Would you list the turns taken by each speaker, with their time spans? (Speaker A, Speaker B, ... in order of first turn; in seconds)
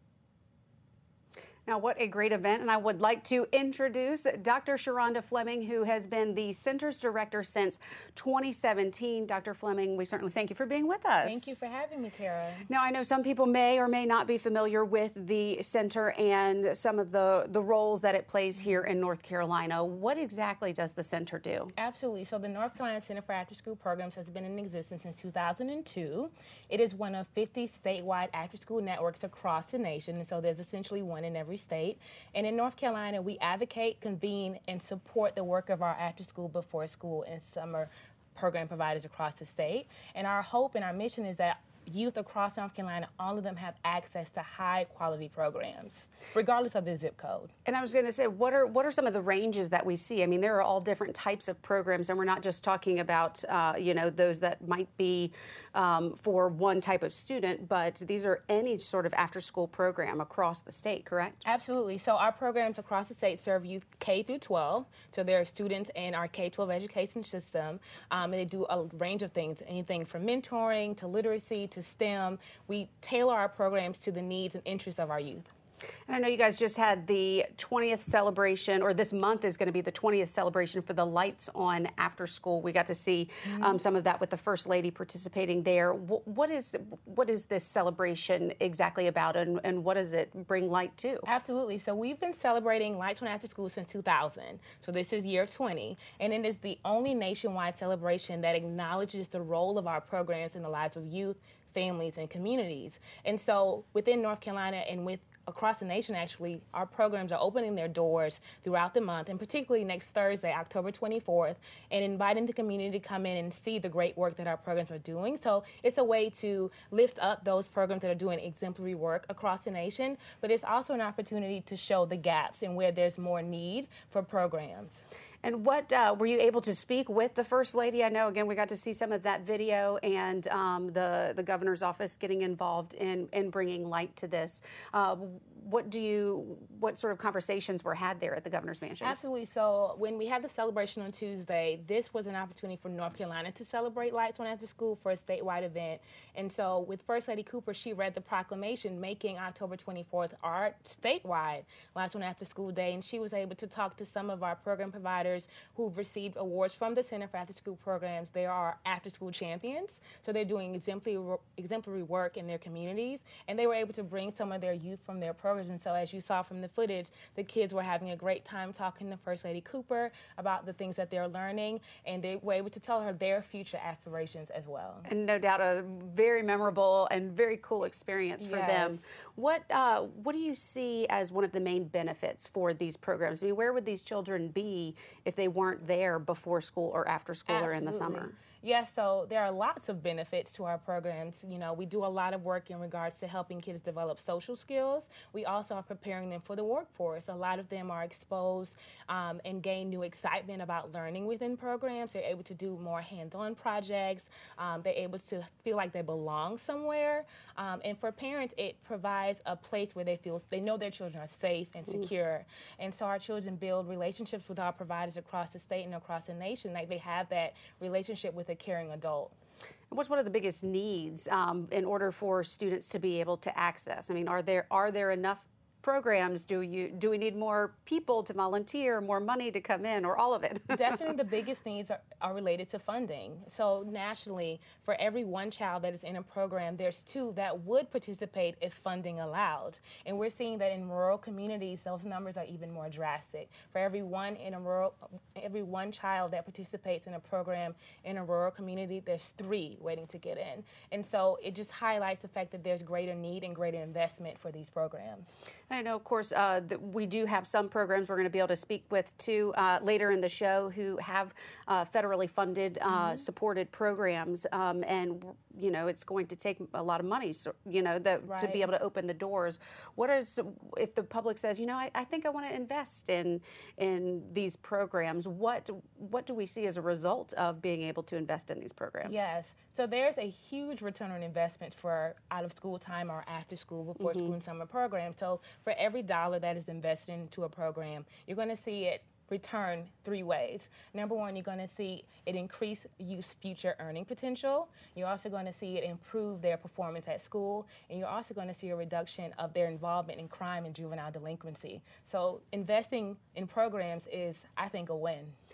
Speaker A: 1.6-11.7, 12.7-21.7, 47.7-61.4, 76.1-91.2, 125.4-139.2, 175.1-188.3, 219.9-231.0, 255.7-279.3, 284.0-284.3
Speaker B: 11.2-12.7, 21.8-47.5, 61.4-75.5, 83.4-83.8, 91.2-125.0, 139.0-175.1, 178.4-179.0, 187.5-219.3, 230.7-255.3, 262.9-263.2, 268.2-268.6, 279.0-305.3